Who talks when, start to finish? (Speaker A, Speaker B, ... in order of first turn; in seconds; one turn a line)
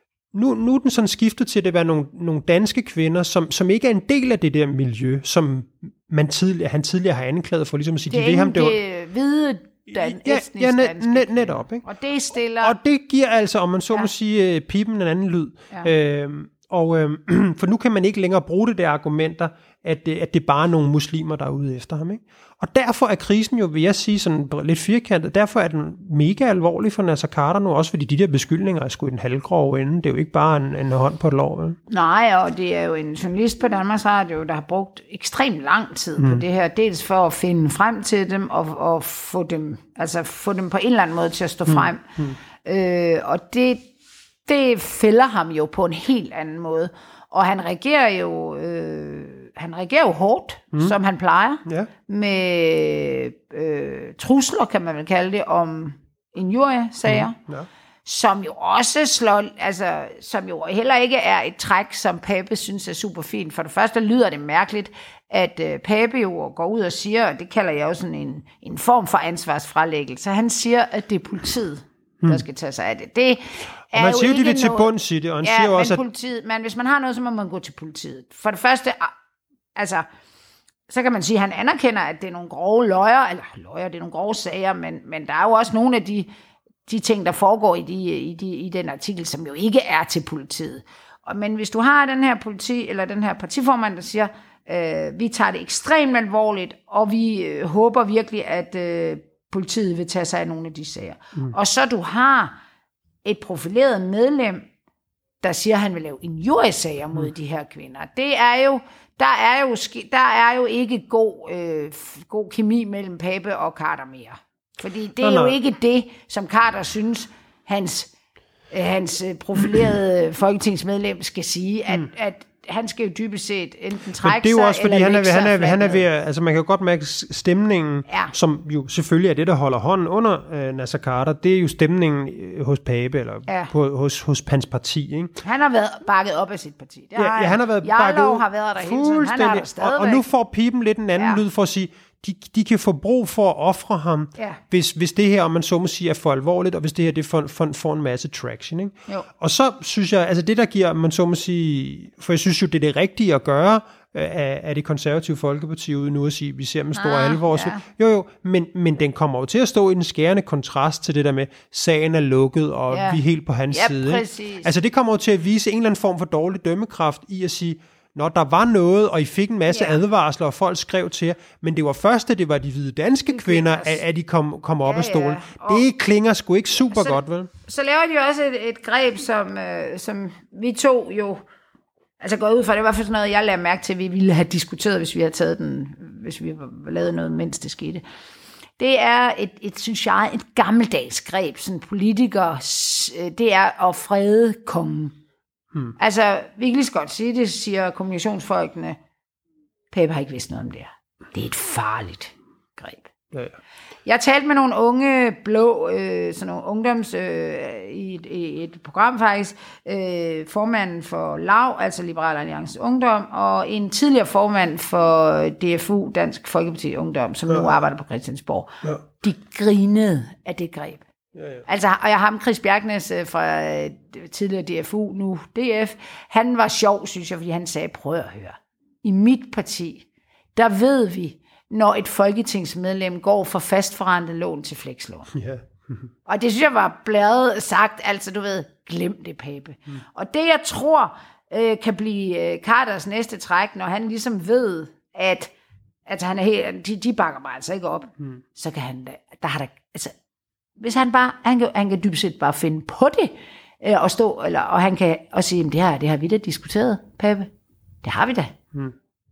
Speaker A: 0.3-8.8
Speaker B: 8.1-12.8
Speaker A: 9.9-11.8
Speaker A: 12.6-31.8
Speaker B: 31.9-43.9
Speaker A: 36.2-36.4
Speaker A: 41.7-42.4
Speaker B: 44.5-57.4
Speaker A: 51.6-51.9
Speaker A: 57.0-57.7
Speaker B: 58.0-79.1
Speaker A: 73.9-76.0
Speaker B: 79.8-80.1
Speaker B: 80.9-86.3
Speaker B: 86.9-102.6
Speaker B: 103.2-104.7
Speaker B: 105.4-118.1
Speaker A: 115.2-115.6
Speaker B: 118.7-126.0
Speaker A: 124.2-135.4
Speaker B: 128.1-128.3
Speaker B: 135.4-140.2
Speaker A: 137.2-177.5
Speaker B: 141.2-141.4
Speaker B: 156.9-157.8
Speaker B: 162.9-164.7
Speaker B: 169.7-170.0
Speaker B: 173.3-174.0
Speaker B: 174.8-175.8
Speaker B: 176.9-181.5
Speaker B: 182.2-188.0
Speaker B: 188.8-195.2
Speaker B: 196.0-199.0
Speaker B: 199.9-203.1
Speaker B: 204.1-221.0
Speaker A: 221.3-221.6
Speaker B: 221.7-235.3
Speaker A: 235.3-236.1
Speaker B: 236.3-245.5
Speaker B: 246.1-250.2
Speaker B: 250.8-257.5
Speaker B: 258.0-258.6